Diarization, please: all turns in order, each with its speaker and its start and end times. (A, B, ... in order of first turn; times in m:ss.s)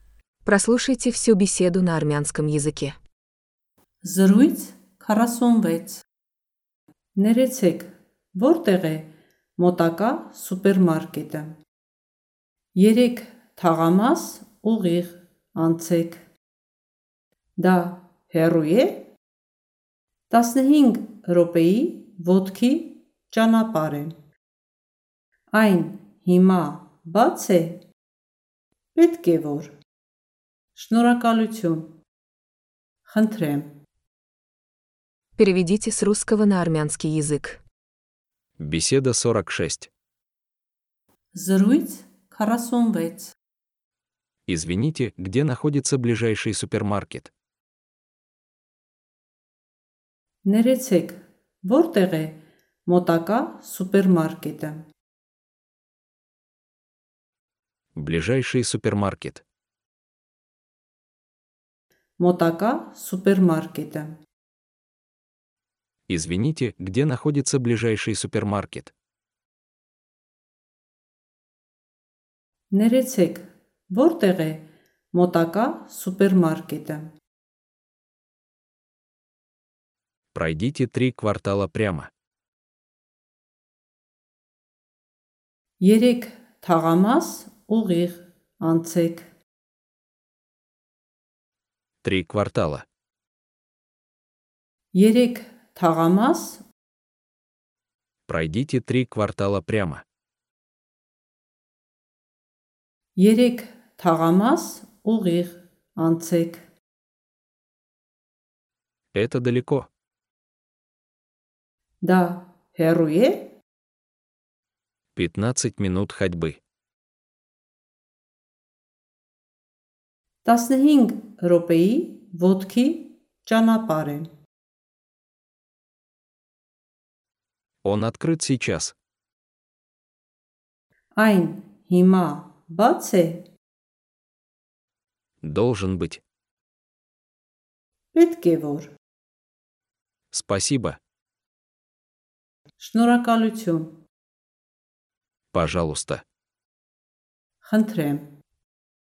0:00.4-0:03.0 A
0:04.0-0:06.0 B
0:07.1-0:11.6 B
0:12.7-0:16.2 B
0:17.6-0:19.1 B
0:20.3-0:24.1 B
0:25.5-0:27.8 B
0:28.9-0:29.7 B
0:30.7-0:32.0 B
0:33.0-0:33.7 B
0:35.4-0:37.6 A
0:38.6-0:39.9 C
0:41.3-0:43.3 B
0:44.5-0:47.3 C
0:50.4-0:54.9 B
0:57.9-0:59.4 C
1:02.2-1:04.2 B
1:06.1-1:08.9 C
1:12.7-1:17.1 B
1:20.3-1:22.1 C
1:25.8-1:29.3 B
1:32.0-1:32.8 C
1:34.9-1:36.6 B
1:38.3-1:40.0 C
1:43.2-1:46.6 B
1:49.1-1:49.9 C
1:52.0-1:53.5 B
1:55.1-1:56.6 C
2:00.4-2:04.3 B
2:07.8-2:08.9 C
2:11.1-2:13.5 B
2:15.4-2:16.2 C
2:18.1-2:18.9 B
2:20.3-2:21.0 C
2:22.8-2:23.9 B
2:25.5-2:26.2 C
2:27.6-2:28.3 B